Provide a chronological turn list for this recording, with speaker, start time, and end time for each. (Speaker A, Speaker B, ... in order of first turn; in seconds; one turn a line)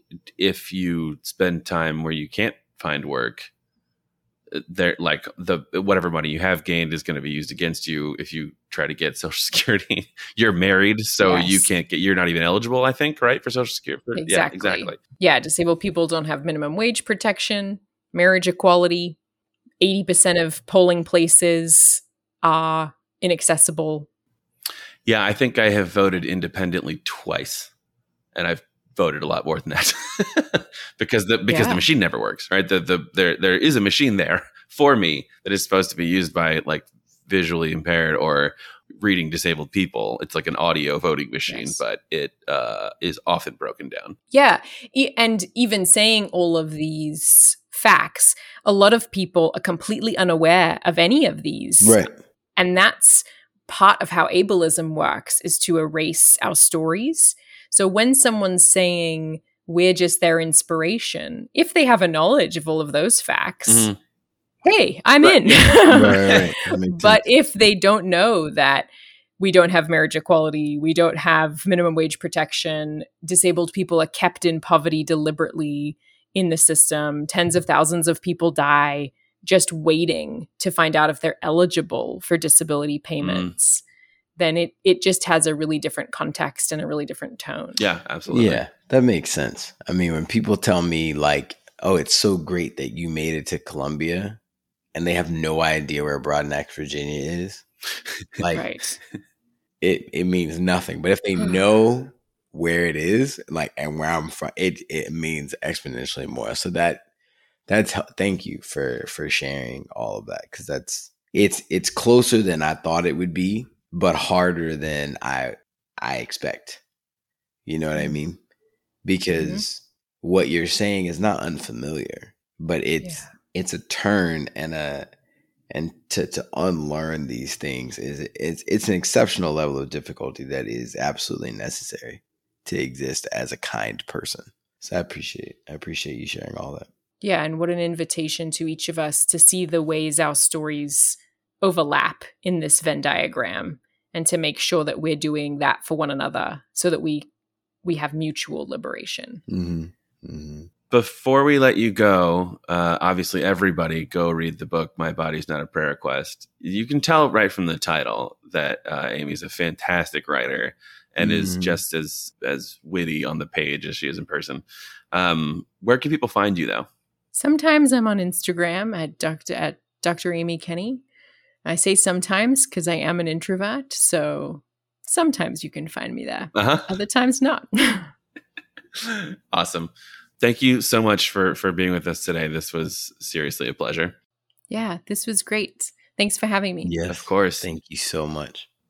Speaker A: 0.4-3.5
Speaker A: 4.5-15.0
Speaker B: 11.2-11.7
Speaker B: 14.1-19.2
Speaker B: 19.8-24.1
Speaker A: 25.1-27.7
Speaker A: 28.3-44.1
Speaker B: 31.5-31.8
Speaker B: 41.5-41.8
Speaker B: 44.3-52.0
Speaker C: 51.8-52.1
Speaker B: 52.5-63.9
Speaker A: 63.7-64.0
Speaker B: 64.6-83.8
Speaker A: 65.2-65.8
Speaker C: 65.9-67.2
Speaker A: 83.2-83.5
Speaker B: 84.4-87.8
Speaker A: 87.8-88.6
Speaker C: 88.3-94.4
Speaker C: 94.9-97.6
Speaker C: 98.4-98.7
Speaker B: 98.5-99.0
Speaker C: 99.8-107.0
Speaker C: 107.7-116.8
Speaker C: 117.7-118.4
Speaker C: 119.0-125.0
Speaker B: 119.4-119.6
Speaker B: 123.0-123.3
Speaker C: 125.7-136.9
Speaker B: 137.2-147.3
Speaker B: 147.8-149.4
Speaker C: 149.5-150.7
Speaker A: 150.9-166.9
Speaker C: 161.2-161.8
Speaker B: 167.3-171.0
Speaker B: 171.6-178.1
Speaker A: 176.5-176.9
Speaker A: 178.9-184.1
Speaker B: 184.7-186.9
Speaker C: 186.8-188.7
Speaker A: 187.1-187.7